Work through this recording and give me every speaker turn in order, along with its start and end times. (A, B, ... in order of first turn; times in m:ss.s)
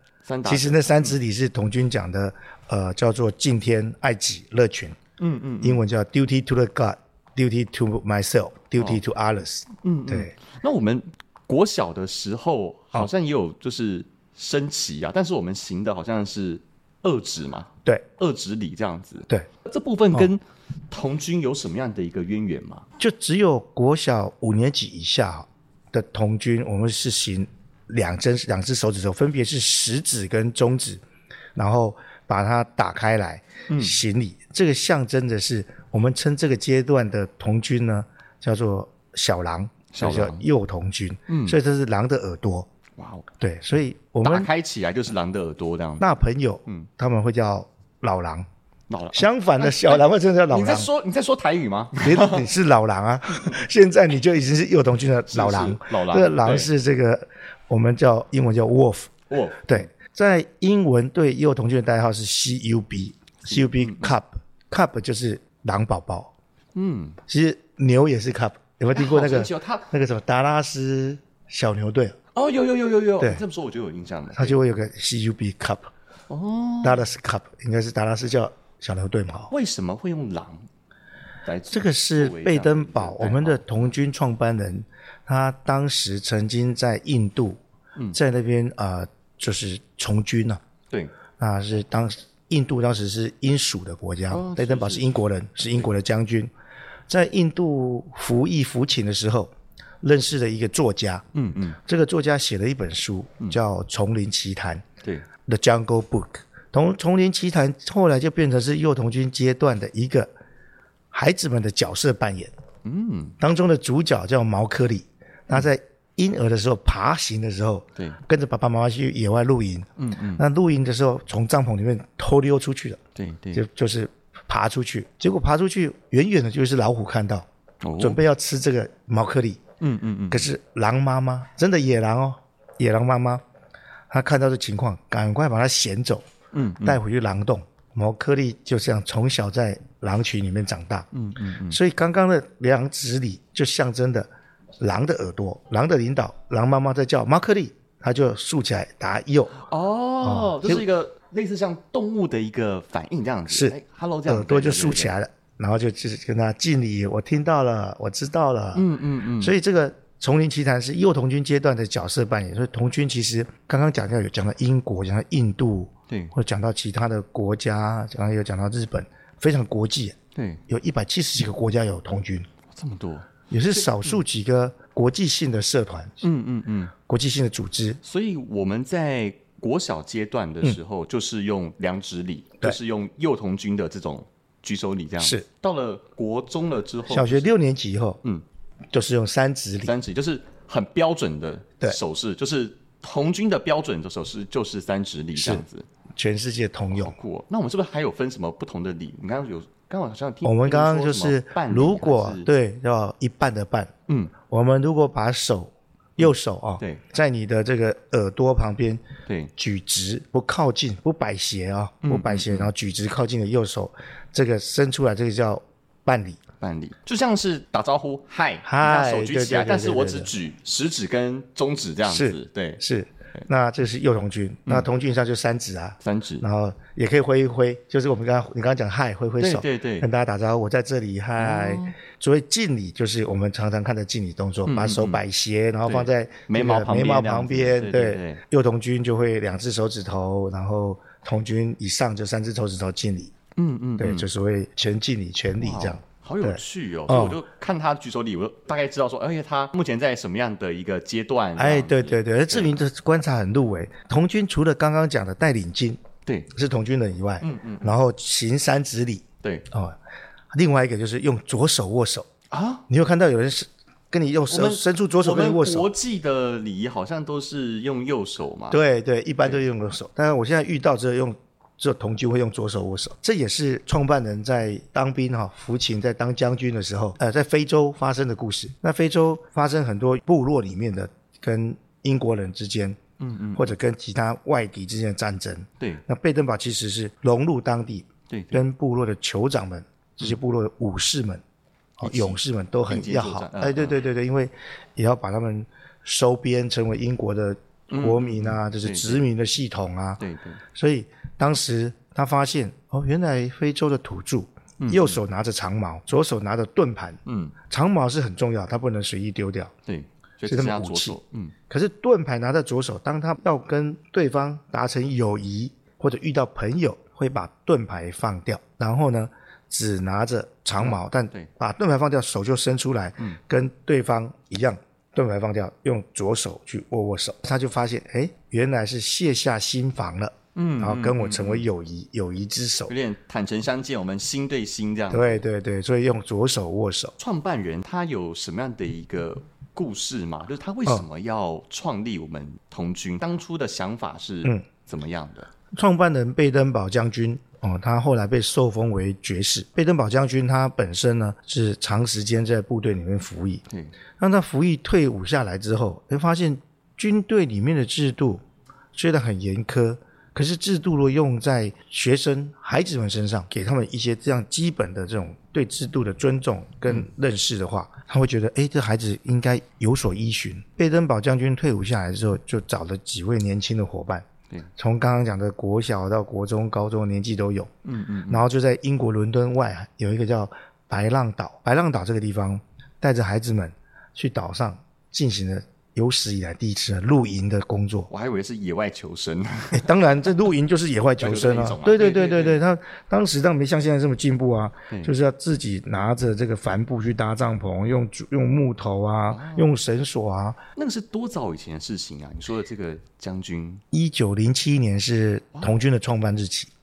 0:00.2-0:01.1 A
0:00.4-0:05.0 B
0:05.2-0:05.8 A
0:05.6-0:10.3 B
0:09.8-0:22.8 A
0:23.0-0:31.0 B
0:31.5-0:42.7 B
0:33.7-0:34.0 A
0:39.9-0:40.4 A
0:41.3-0:41.6 A
0:43.0-0:43.2 A
0:43.4-0:44.5 B
0:44.2-0:46.0 A
0:46.0-0:48.4 B
0:48.9-0:52.5 A
0:49.1-0:50.9 B
0:52.0-0:59.1 B
0:55.3-0:56.7 A
0:59.3-0:59.9 A
0:59.6-1:06.3 B
1:03.4-1:04.2 A
1:06.7-1:07.2 A
1:07.3-1:12.2 B
1:08.9-1:09.9 A
1:12.3-1:14.6 A
1:14.3-1:15.9 B
1:16.3-1:17.1 A
1:16.8-1:19.5 B
1:19.5-1:20.6 A
1:21.4-1:23.9 A
1:21.7-1:27.6 B
1:28.1-1:30.6 B
1:31.4-1:36.5 B
1:34.3-1:35.2 A
1:37.1-1:41.2 B
1:41.3-1:41.8 A
1:41.8-1:44.8 B
1:45.4-1:50.3 B
1:51.1-1:52.5 B
1:52.8-1:53.4 A
1:53.4-2:03.0 B
2:00.0-2:00.4 A
2:03.1-2:03.6 A
2:03.5-2:07.4 B
2:07.8-2:08.2 A
2:08.0-2:09.6 B
2:09.8-2:10.5 A
2:10.3-2:13.4 B
2:14.1-2:16.2 B
2:16.5-2:17.0 A
2:16.8-2:21.1 B
2:21.1-2:21.8 A
2:21.7-2:24.3 B
2:24.8-2:29.6 B
2:29.6-2:35.2 A
2:30.2-2:30.8 B
2:33.5-2:33.8 B
2:34.3-2:38.9 B
2:38.7-2:39.5 A
2:39.4-2:50.2 B
2:46.1-2:46.3 A
2:50.3-2:50.6 A
2:50.7-2:52.5 B
2:52.7-2:54.2 A
2:53.5-2:56.2 B
2:56.2-2:56.9 A
2:57.0-2:58.0 B
2:58.0-3:07.5 A
3:05.2-3:05.4 B
3:07.1-3:08.2 B
3:08.9-3:09.9 B
3:09.8-3:15.8 A
3:15.4-3:15.6 B
3:16.2-3:17.1 B
3:16.9-3:22.5 A
3:20.4-3:23.9 B
3:24.1-3:24.3 A
3:24.4-3:29.0 B
3:26.2-3:27.0 A
3:29.3-3:29.5 A
3:29.6-3:36.4 B
3:32.0-3:32.7 A
3:36.6-3:42.8 A
3:38.6-3:40.3 B
3:42.0-4:03.3 B
3:46.0-3:46.4 A
3:49.4-3:50.1 A
3:51.4-3:51.9 A
3:54.6-3:55.2 A
3:55.8-3:58.4 A
4:03.6-4:04.3 A
4:04.0-4:07.4 B
4:05.6-4:12.7 A
4:11.6-4:20.0 B
4:16.2-4:16.5 A
4:17.4-4:17.9 A
4:19.4-4:19.7 A
4:20.5-4:22.3 B
4:22.5-4:22.8 A
4:22.9-4:25.9 B
4:24.5-4:28.8 A
4:28.7-4:43.0 B
4:43.2-4:43.7 A
4:43.5-4:51.4 B
4:48.3-4:48.6 A
4:52.0-5:00.2 B
4:52.0-4:54.0 A
4:57.9-4:59.2 A
5:00.2-5:00.6 A
5:00.7-5:09.7 B
5:04.8-5:05.2 A
5:07.2-5:07.5 A
5:09.8-5:11.5 A
5:10.4-5:11.2 B
5:11.7-5:32.9 B
5:20.8-5:21.5 A
5:30.5-5:31.7 A
5:32.9-5:35.4 A
5:35.1-5:37.1 B
5:37.2-5:45.5 A
5:45.7-5:53.6 B
5:53.7-5:53.9 A
5:54.2-5:58.4 B
5:58.9-6:14.2 B
6:14.8-6:17.7 B
6:17.8-6:18.4 A
6:18.3-6:28.1 B
6:28.1-6:30.2 A
6:29.7-6:40.6 B
6:31.2-6:32.6 A
6:39.3-6:39.7 A
6:40.8-6:43.8 A
6:43.9-6:46.7 B
6:45.5-6:45.8 A